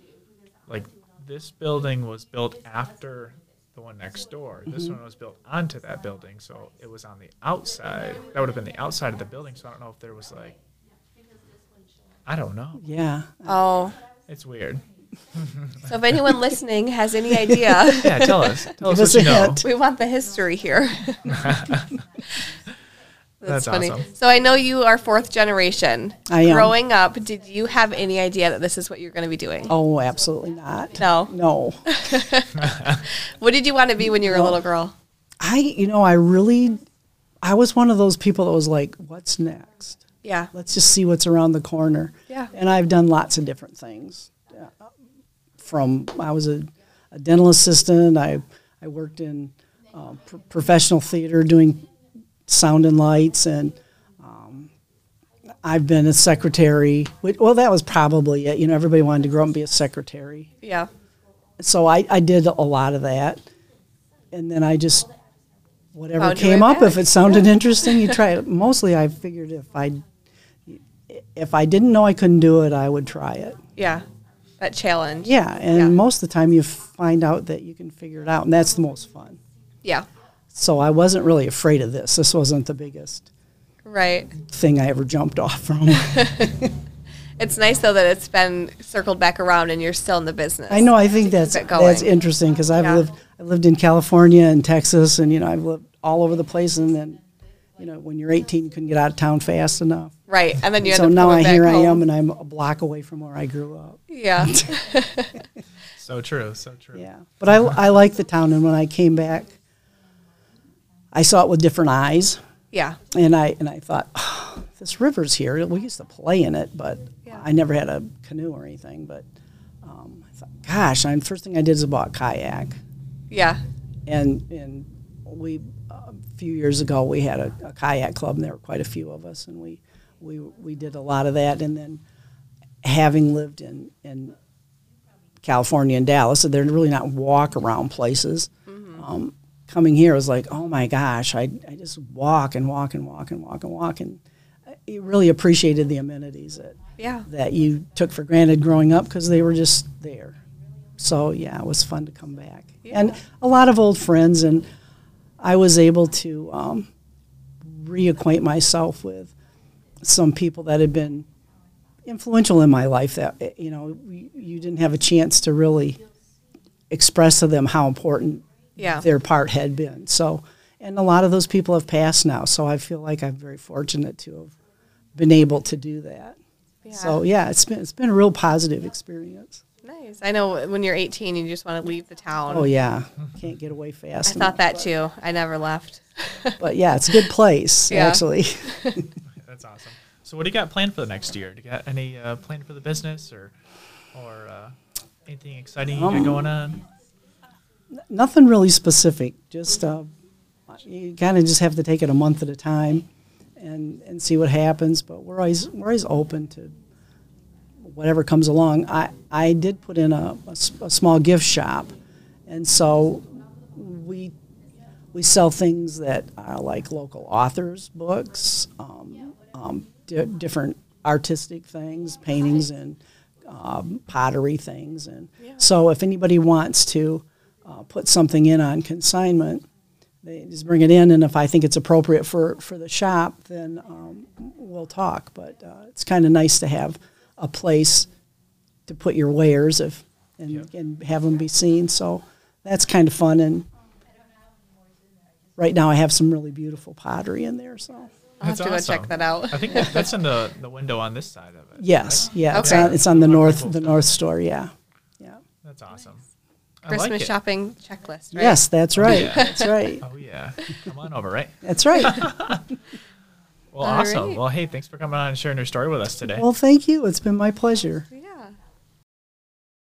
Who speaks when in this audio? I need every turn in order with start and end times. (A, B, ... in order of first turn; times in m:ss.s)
0:00.7-0:10.6 A
0:04.7-0:05.0 B
0:12.3-0:12.8 A
0:12.8-0:13.6 B
0:13.5-0:14.0 C
0:14.3-0:14.8 A
0:15.4-0:15.9 A
0:15.8-0:18.5 C
0:17.9-0:19.6 A
0:18.8-0:19.7 B
0:19.6-0:21.6 C
0:21.3-0:21.9 A
0:23.4-0:29.7 C
0:23.4-0:24.1 A
0:26.3-0:26.8 B
0:29.7-0:31.8 B
0:31.0-0:31.3 C
0:31.9-0:34.9 C
0:32.6-0:33.0 A
0:34.0-0:34.6 B
0:35.4-0:36.8 B
0:37.4-0:44.8 B
0:40.2-0:40.5 C
0:45.6-0:51.8 B
0:52.5-0:54.7 B
0:55.6-1:00.5 B
1:00.6-1:00.9 C
1:01.6-1:03.4 B
1:04.3-1:05.1 B
1:05.9-1:10.0 B
1:06.2-1:08.2 C
1:10.7-1:13.6 B
1:13.8-1:14.0 C
1:14.6-1:16.0 C
1:15.2-1:19.4 B
1:20.5-1:23.3 B
1:23.8-1:24.3 C
1:24.4-1:26.7 B
1:26.0-1:26.5 C
1:27.4-1:32.1 C
1:30.7-1:37.2 B
1:32.8-1:33.0 C
1:37.8-1:40.1 B
1:40.3-1:42.0 C
1:40.8-1:44.8 B
1:44.1-1:45.4 C
1:46.0-1:47.0 A
1:46.9-1:49.6 B
1:51.1-1:52.4 B
1:52.7-1:53.0 C
1:53.1-1:59.2 B
1:59.8-2:02.8 B
2:03.3-2:03.6 C
2:04.1-2:12.0 B
2:12.8-2:14.4 B
2:15.4-2:24.2 B
2:18.7-2:19.0 C
2:24.9-2:30.4 B
2:27.0-2:27.3 C
2:31.0-2:34.7 B
2:35.4-2:36.9 B
2:37.6-2:39.3 B
2:40.0-2:41.3 B
2:42.1-2:46.0 B
2:46.9-2:54.5 B
2:48.8-2:49.0 C
2:55.2-2:56.4 B
2:56.8-2:57.2 C
2:56.9-2:59.6 B
2:59.8-3:02.7 C
3:02.5-3:04.9 B
3:04.3-3:06.6 C
3:06.6-3:09.0 B
3:07.9-3:09.0 C
3:09.4-3:13.5 A
3:14.1-3:14.8 A
3:15.3-3:16.8 A
3:15.9-3:16.5 B
3:18.0-3:20.1 B
3:20.7-3:23.1 B
3:23.6-3:26.7 B
3:27.8-3:32.0 B
3:32.5-3:34.3 B
3:35.1-3:49.6 B
3:50.2-3:58.1 B
3:58.9-4:03.7 B
4:05.6-4:08.1 B
4:08.4-4:10.1 C
4:08.4-4:14.1 A
4:11.8-4:15.4 B
4:12.5-4:13.0 C
4:15.6-4:16.2 A
4:16.8-4:17.3 A
4:16.9-4:19.7 C
4:18.3-4:20.0 B
4:19.0-4:22.7 A
4:21.6-4:22.3 B
4:23.7-4:26.5 A
4:23.8-4:24.4 C
4:26.3-4:28.1 B
4:28.1-4:28.5 C